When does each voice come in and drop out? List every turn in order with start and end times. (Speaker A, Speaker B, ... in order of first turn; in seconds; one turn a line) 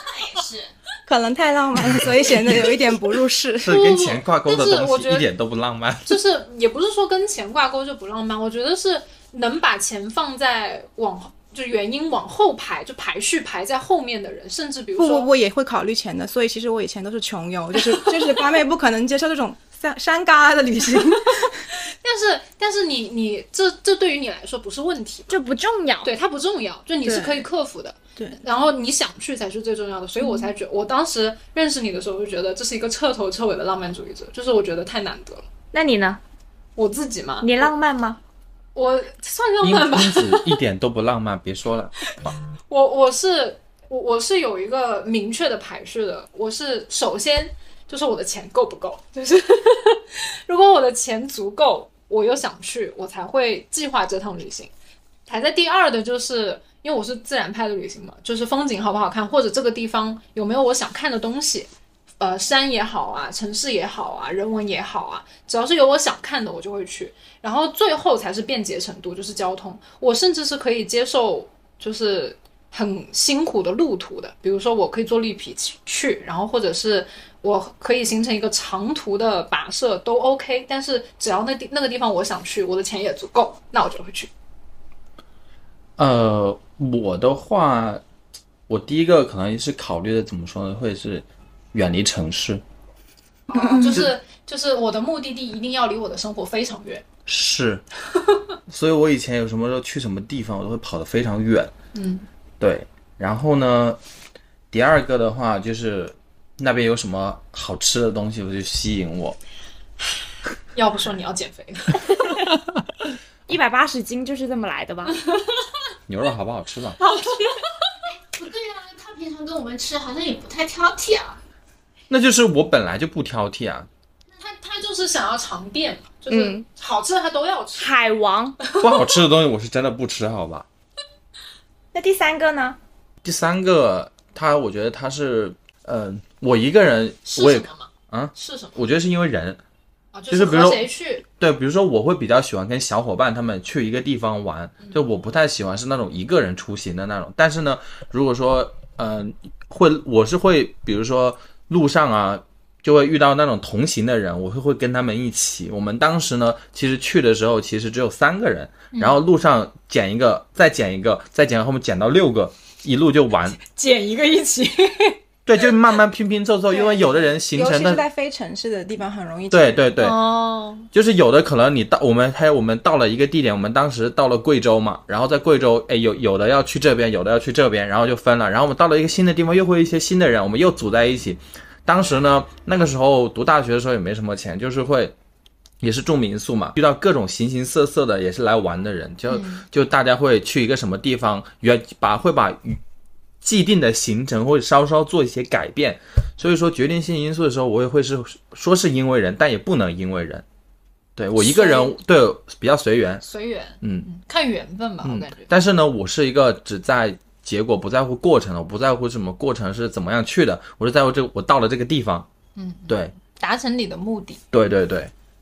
Speaker A: 0.2-0.7
Speaker B: 1.1-3.8
Speaker C: 3.6-6.2
Speaker D: 3.6-5.3
Speaker D: 6.0-15.3
Speaker B: 14.9-21.6
Speaker D: 21.4-25.4
Speaker E: 25.3-26.1
Speaker D: 26.0-35.4
Speaker B: 27.0-27.4
Speaker B: 28.1-28.4
Speaker E: 35.7-36.2
Speaker D: 36.8-37.7
Speaker E: 37.4-38.2
Speaker D: 38.7-40.6
Speaker C: 39.6-42.3
Speaker D: 42.7-54.7
Speaker D: 55.3-84.3
Speaker C: 86.0-88.0
Speaker C: 88.7-92.6
Speaker D: 93.5-97.0
Speaker B: 93.5-94.1
Speaker C: 97.2-97.8
Speaker C: 98.7-101.7
Speaker D: 101.9-102.2
Speaker C: 102.6-104.0
Speaker C: 104.7-109.4
Speaker D: 110.7-112.2
Speaker E: 113.5-115.2
Speaker C: 116.1-117.0
Speaker D: 117.0-117.6
Speaker A: 118.3-121.4
Speaker C: 122.1-123.9
Speaker D: 124.4-127.9
Speaker E: 126.3-126.6
Speaker E: 127.8-128.6
Speaker D: 128.7-129.0
Speaker C: 128.8-130.7
Speaker E: 131.9-132.8
Speaker C: 133.2-139.6
Speaker D: 137.3-138.8
Speaker D: 140.1-141.2
Speaker C: 140.3-163.6
Speaker D: 163.6-165.2
Speaker C: 165.4-168.0
Speaker B: 166.7-169.9
Speaker C: 169.5-170.2
Speaker D: 170.0-170.9
Speaker C: 170.9-185.1
Speaker C: 185.8-192.8
Speaker D: 189.3-189.6
Speaker C: 193.4-200.4
Speaker C: 201.2-203.2
Speaker D: 201.4-201.9
Speaker D: 203.2-205.5
Speaker C: 203.8-204.1
Speaker C: 205.0-212.3
Speaker D: 212.6-214.4
Speaker C: 212.9-213.1
Speaker C: 214.5-215.1